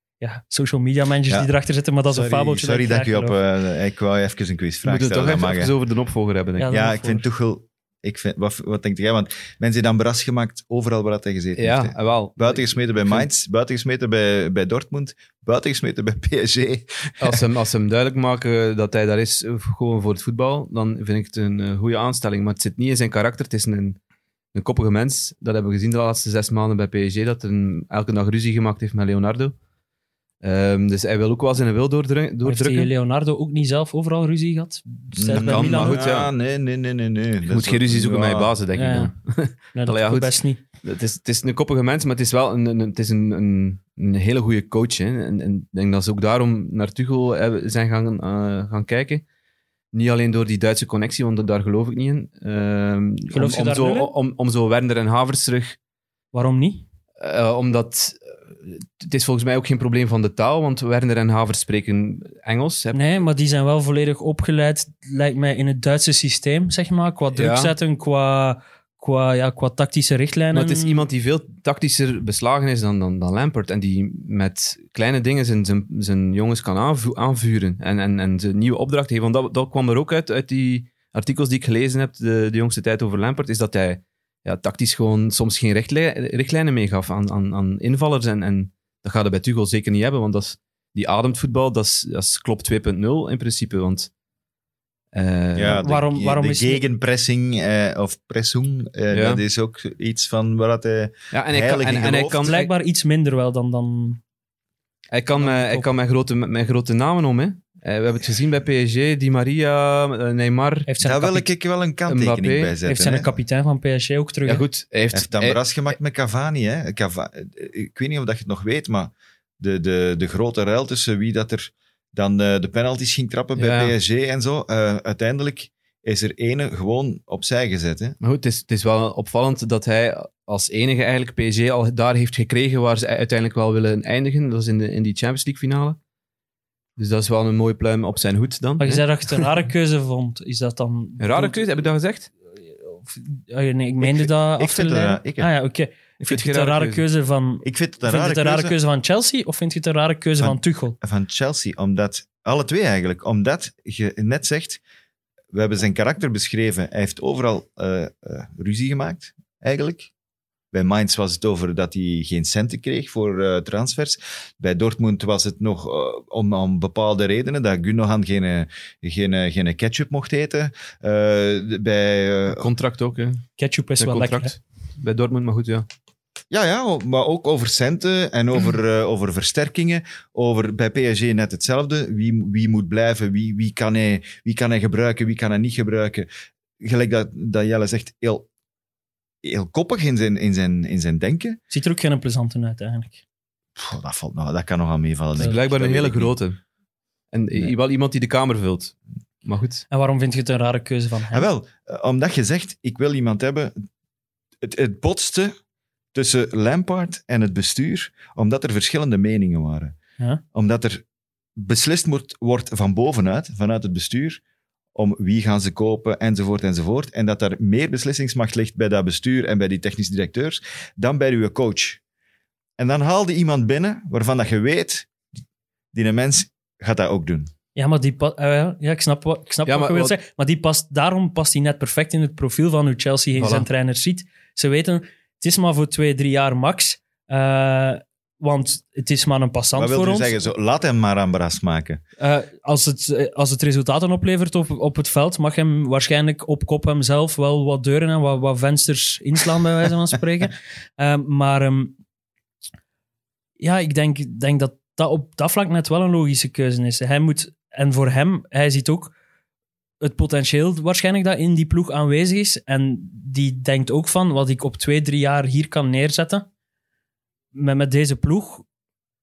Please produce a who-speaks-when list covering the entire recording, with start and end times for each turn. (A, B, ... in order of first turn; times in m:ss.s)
0:00.2-0:03.4 A
0:02.1-0:05.7 B
0:04.8-0:06.7 C
0:06.6-0:07.2 A
0:06.7-0:17.4 B
0:11.6-0:13.3 C
0:17.2-0:24.0 C
0:24.5-0:29.6 C
0:30.4-0:32.9 C
0:32.4-0:36.0 A
0:35.1-0:38.5 B
0:35.3-0:36.3 C
0:37.5-0:49.2 C
0:38.8-0:39.1 A
0:39.7-0:40.6 A
0:49.9-0:55.8 C
0:53.3-0:54.1 A
0:56.3-0:56.9 A
0:57.2-1:03.0 C
1:02.9-1:11.1 A
1:07.3-1:07.8 C
1:10.5-1:34.1 C
1:35.1-1:35.8 C
1:35.6-1:42.5 B
1:35.7-1:36.8 A
1:39.1-1:39.4 C
1:41.3-1:42.7 C
1:42.4-1:44.2 A
1:45.1-1:50.9 C
1:45.4-1:45.9 A
1:50.9-1:51.5 A
1:51.0-1:53.3 B
1:52.1-1:52.7 C
1:52.8-1:54.6 A
1:54.4-1:55.6 C
1:55.1-2:08.2 B
2:03.6-2:03.9 C
2:08.2-2:16.0 C
2:17.0-2:19.5 C
2:18.8-2:21.7 A
2:21.2-2:22.3 C
2:22.8-2:31.0 A
2:24.0-2:25.5 B
2:26.2-2:27.0 C
2:27.6-2:28.8 B
2:30.4-2:34.8 B
2:35.5-2:40.1 B
2:40.7-2:52.7 B
2:52.5-2:53.4 C
2:53.6-2:54.6 A
2:54.0-2:55.9 C
2:56.5-3:06.3 B
3:06.8-3:08.5 B
3:09.4-3:11.6 B
3:11.7-3:13.2 A
3:13.8-3:16.4 B
3:15.4-3:16.6 C
3:17.3-3:19.8 C
3:19.9-3:21.5 A
3:21.3-3:23.7 B
3:24.6-3:25.5 B
3:26.1-3:30.0 B
3:30.5-3:31.0 B
3:31.6-3:34.4 B
3:35.0-3:42.0 B
3:42.8-3:45.1 B
3:45.9-3:47.5 B
3:47.8-4:00.4 A
3:49.7-3:50.2 C
3:53.4-3:53.7 C
3:59.8-4:02.0 B
4:02.2-4:12.0 A
4:13.6-4:19.1 A
4:20.0-4:26.5 A
4:27.5-4:28.6 A